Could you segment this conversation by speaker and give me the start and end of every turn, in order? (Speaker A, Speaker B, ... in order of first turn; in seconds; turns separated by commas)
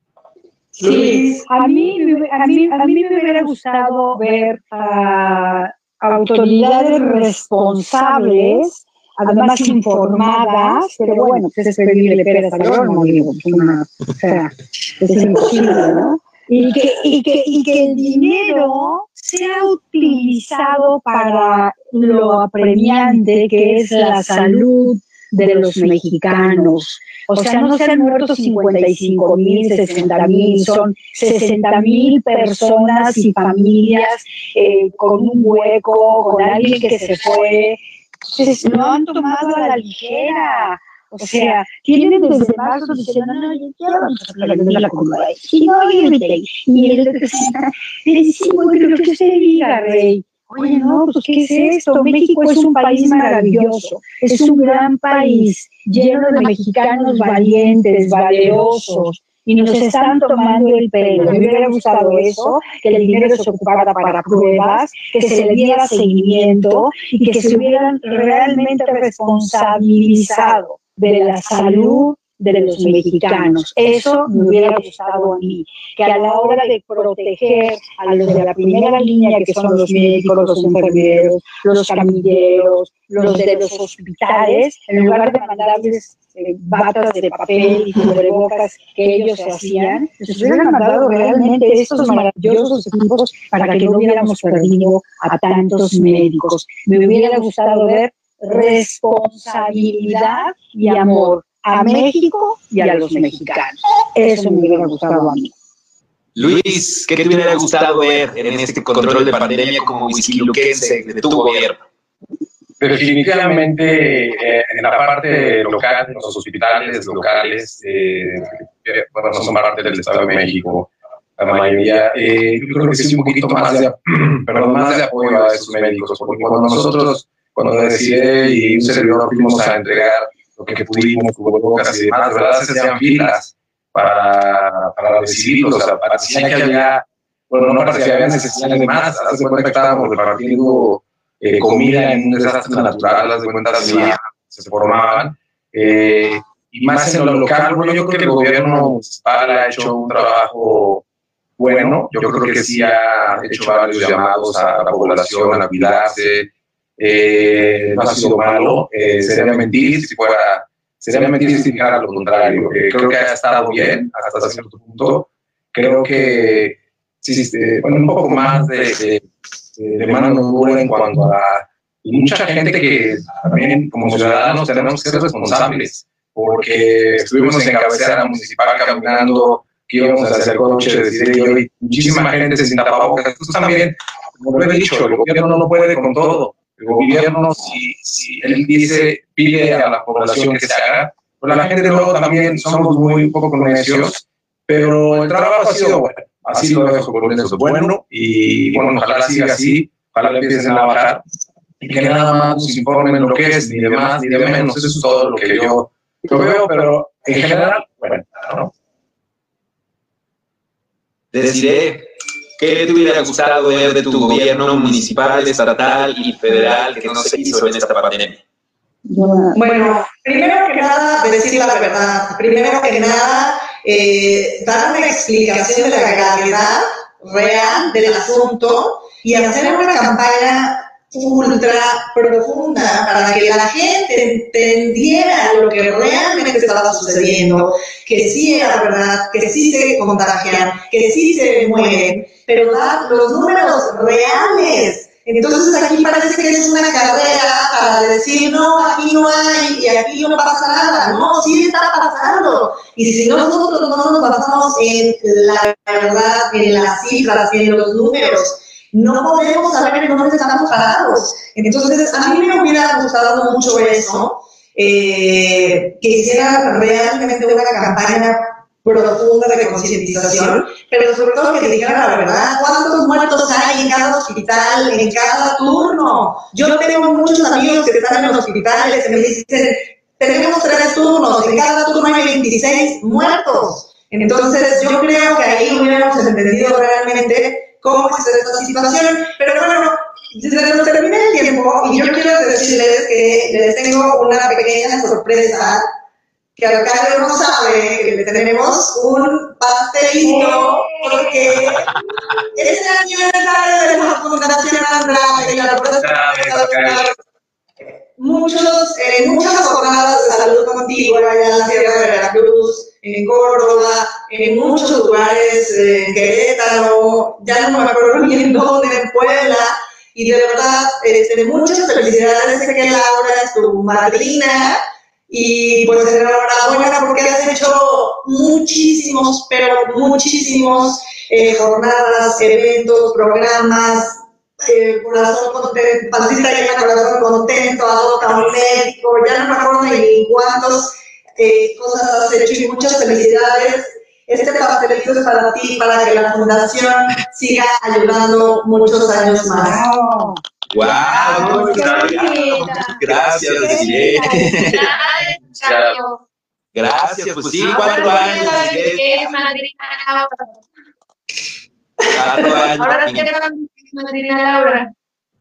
Speaker A: 0.8-105.5, Speaker B: 106.4-111.8, Speaker C: 112.8-151.0, Speaker C: 151.6-169.2, Speaker C: 169.8-201.2, Speaker C: 201.8-208.7, Speaker B: 211.3-212.1, Speaker B: 212.6-218.4, Speaker A: 219.1-219.6, Speaker D: 219.5-295.9, Speaker D: 296.6-301.9, Speaker A: 300.2-301.3, Speaker D: 302.6-307.1, Speaker C: 306.0-307.1, Speaker D: 308.2-349.8, Speaker A: 349.6-350.4, Speaker B: 350.7-354.9, Speaker A: 350.9-354.7, Speaker C: 351.7-352.1, Speaker E: 354.5-356.2, Speaker C: 355.6-355.9, Speaker B: 356.7-359.1, Speaker E: 357.6-360.6, Speaker B: 362.1-363.3, Speaker E: 362.4-364.9